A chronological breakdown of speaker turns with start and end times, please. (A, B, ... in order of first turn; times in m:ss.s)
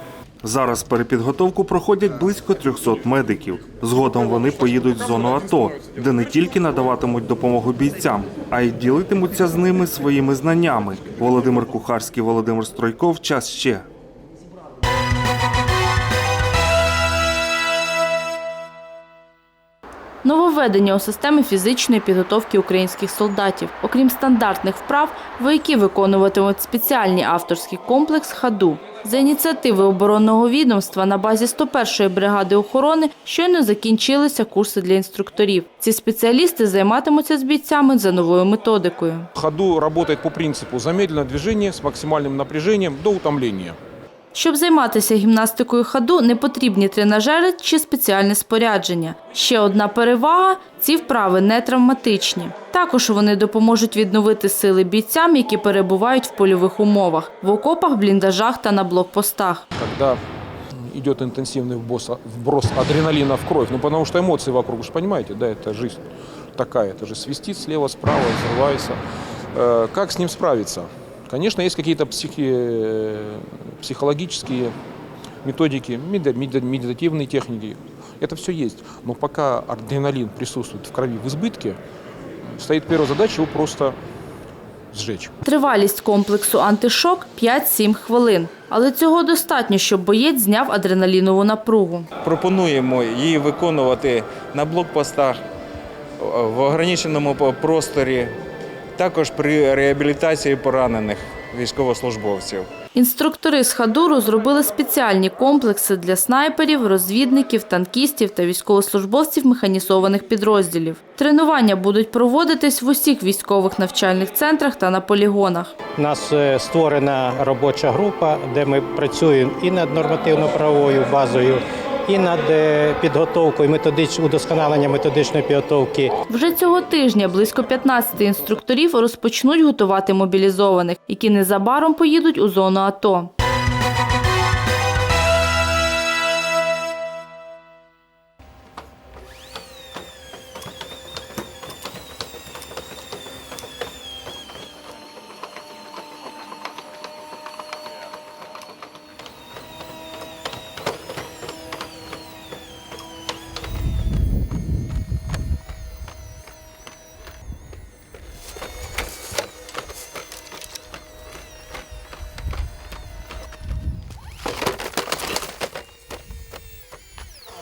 0:00.4-0:13.9 A
0:20.2-0:39.3 B
0:39.4-0:43.8 C
0:44.3-0:59.6 B
0:59.8-1:00.2 C
1:00.9-1:06.0 C
1:06.6-1:09.0 C
1:09.5-1:14.8 C
1:15.4-1:21.8 C
1:22.6-1:24.0 C
1:24.9-1:25.3 C
1:25.4-1:32.1 B
1:32.2-1:35.4 D
1:36.2-1:38.4 D
1:39.0-1:42.7 D
1:43.0-1:55.7 B
1:56.0-2:06.1 E
2:06.3-2:13.3 B